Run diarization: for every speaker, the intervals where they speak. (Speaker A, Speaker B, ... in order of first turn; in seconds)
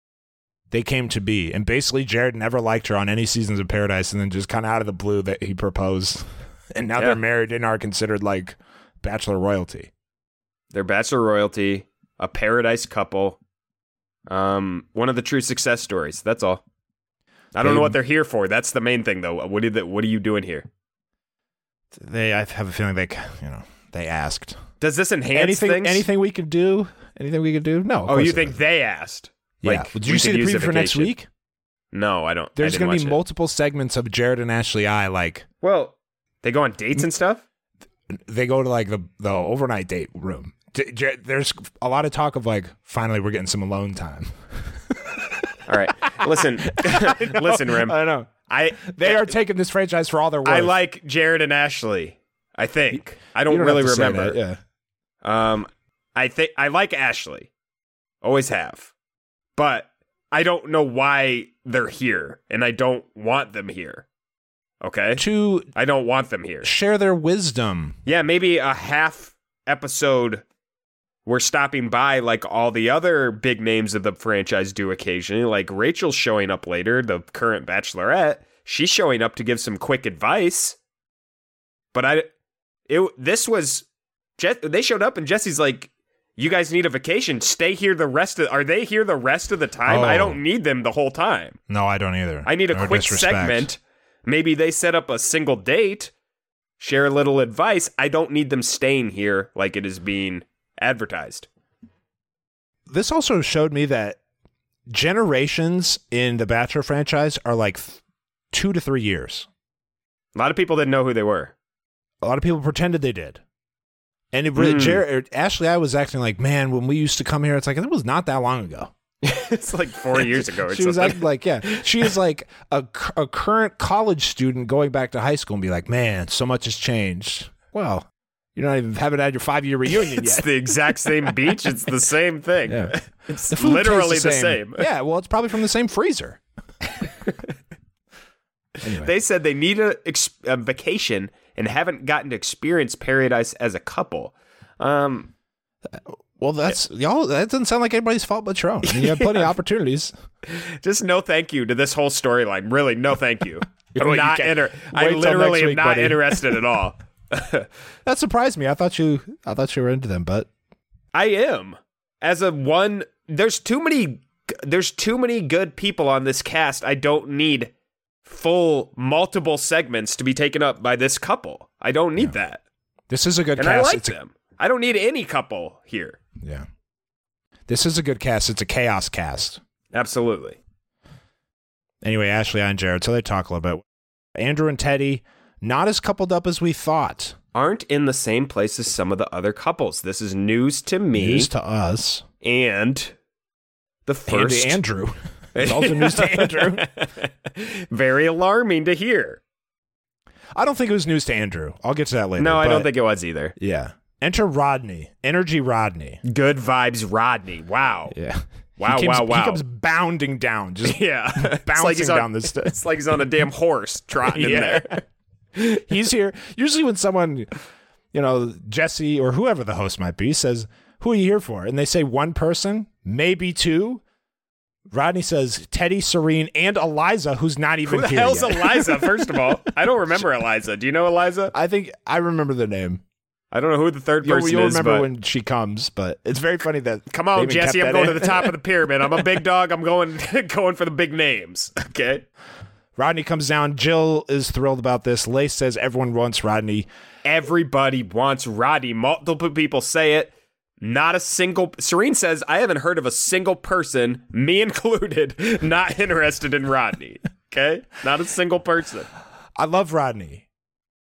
Speaker A: 0.7-9.9, 17.6-18.0, 21.9-24.6, 25.3-28.6, 29.6-31.3, 32.6-35.5, 38.1-45.5, 46.2-48.3, 48.8-50.7, 53.5-54.6, 65.2-65.7, 66.6-68.0, 89.9-90.4, 91.7-93.7, 102.9-104.2, 104.9-108.0, 108.5-109.5, 112.2-113.4, 114.3-118.9, 120.2-130.5, 132.7-132.9, 133.5-136.4, 138.8-139.1, 145.9-150.1, 154.0-156.6, 158.1-160.5, 173.1-174.2, 176.4-176.7, 177.7-179.6, 182.0-183.8, 184.4-187.4, 191.2-192.2, 194.3-196.9, 200.6-202.9, 203.6-206.2, 208.1-212.8, 214.3-215.0, 215.6-217.5, 218.1-224.0, 224.9-229.3, 231.5-233.0, 234.2-238.6, 243.0-246.9, 259.6-260.4
Speaker B: 10.7-13.4, 14.3-16.6, 17.5-20.7, 24.8-26.1, 28.1-31.1, 31.9-33.2, 35.6-37.4, 45.7-49.4, 50.5-54.4, 55.2-57.5, 58.2-58.9, 59.6-64.0, 64.8-65.2, 65.8-66.7, 68.0-70.4, 71.3-80.8, 81.9-82.3, 82.9-83.8, 84.4-91.6, 92.5-96.1, 96.8-101.5, 110.3-111.5, 114.6-115.0, 119.2-122.1, 130.1-134.9, 139.0-145.3, 148.9-149.5, 150.5-157.7, 161.1-167.7, 168.3-172.6, 173.6-176.2, 179.9-180.6, 187.5-191.5, 192.4-193.1, 194.1-194.8, 195.6-199.4, 202.4-203.6, 206.2-208.2, 208.8-209.6, 210.8-215.0, 227.9-231.5, 233.5-235.1, 237.1-242.2, 247.2-259.1